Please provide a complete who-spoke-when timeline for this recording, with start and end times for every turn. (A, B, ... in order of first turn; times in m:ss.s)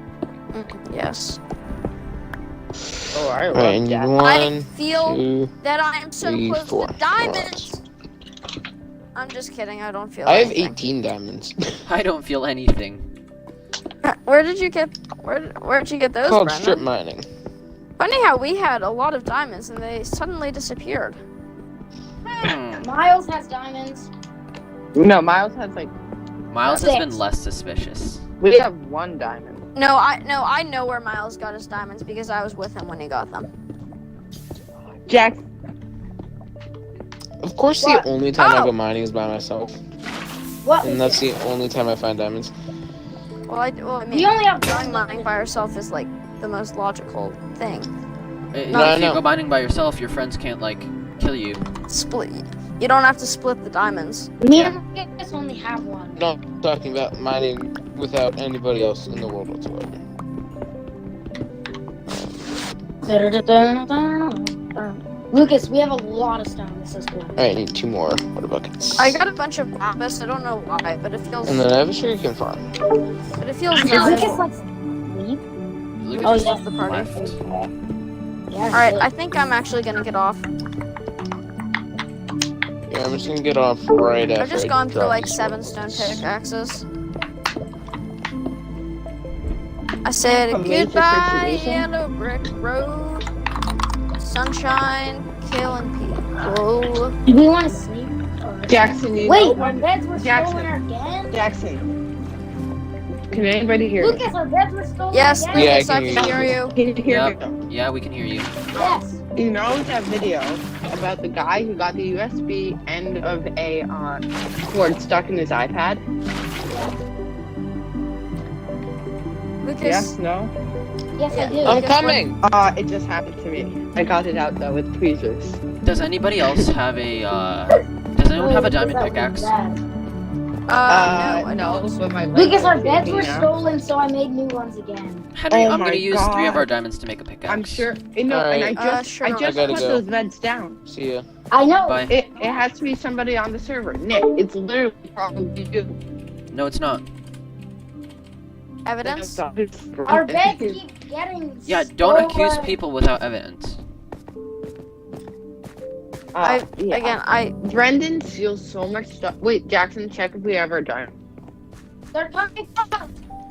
0:00.5-0:01.4 A
0:03.1-0:04.1 B
0:03.5-0:05.5 C
0:04.2-0:07.8 A
0:06.2-0:07.7 C
0:09.2-0:10.8 A
0:10.2-0:11.8 C
0:11.9-0:13.0 D
0:14.0-0:16.8 A
0:16.3-0:17.3 C
0:18.0-0:21.2 A
0:22.3-0:22.8 D
0:22.8-0:24.1 E
0:25.0-0:25.9 B
0:26.5-0:28.2 D
0:26.7-0:27.2 E
0:28.4-0:29.6 B
0:29.8-0:33.5 A
0:35.1-0:35.4 B
0:37.4-0:39.8 C
0:37.8-0:38.7 E
0:40.6-0:41.2 E
0:40.8-0:42.5 C
0:43.5-0:47.9 A
0:44.1-0:45.6 E
0:48.5-0:51.6 D
0:48.7-0:49.0 A
0:48.7-0:49.2 C
0:51.9-0:54.3 A
0:54.4-0:56.2 E
0:54.5-0:54.8 D
0:56.2-1:00.0 C
1:03.0-1:04.8 E
1:05.3-1:07.4 E
1:07.4-1:09.2 C
1:09.0-1:11.7 A
1:11.5-1:12.6 C
1:13.4-1:14.4 A
1:13.8-1:15.4 E
1:16.0-1:17.3 D
1:16.2-1:17.3 A
1:16.2-1:17.7 E
1:18.5-1:19.1 E
1:18.7-1:20.5 A
1:22.9-1:26.2 C
1:24.4-1:26.8 A
1:30.0-1:33.3 A
1:30.2-1:31.9 B
1:34.2-1:37.2 A
1:37.3-1:41.4 E
1:38.7-1:40.7 B
1:41.3-1:41.9 B
1:43.3-1:44.2 B
1:44.0-1:46.1 E
1:45.1-1:46.8 A
1:45.5-1:46.5 C
1:46.2-1:47.6 B
1:47.0-1:48.5 D
1:48.8-1:49.2 E
1:48.8-1:56.0 B
1:56.7-1:57.0 E
1:59.6-2:00.2 A
1:59.8-2:00.5 B
2:01.2-2:02.1 E
2:01.3-2:02.3 A
2:01.6-2:02.4 C
2:02.4-2:05.6 B
2:05.8-2:09.5 D
2:08.4-2:09.8 E
2:10.7-2:12.0 A
2:10.9-2:13.5 B
2:12.3-2:15.3 E
2:15.3-2:17.9 D
2:15.5-2:16.7 B
2:17.4-2:20.8 B
2:18.3-2:18.8 C
2:18.8-2:19.9 A
2:19.4-2:20.0 C
2:20.9-2:21.3 C
2:21.5-2:22.7 E
2:21.9-2:22.2 D
2:22.1-2:25.9 B
2:26.5-2:27.0 D
2:28.8-2:29.4 A
2:29.0-2:30.8 B
2:30.1-2:32.8 E
2:31.7-2:33.8 D
2:36.3-2:41.1 B
2:36.4-2:37.6 A
2:42.1-2:43.1 E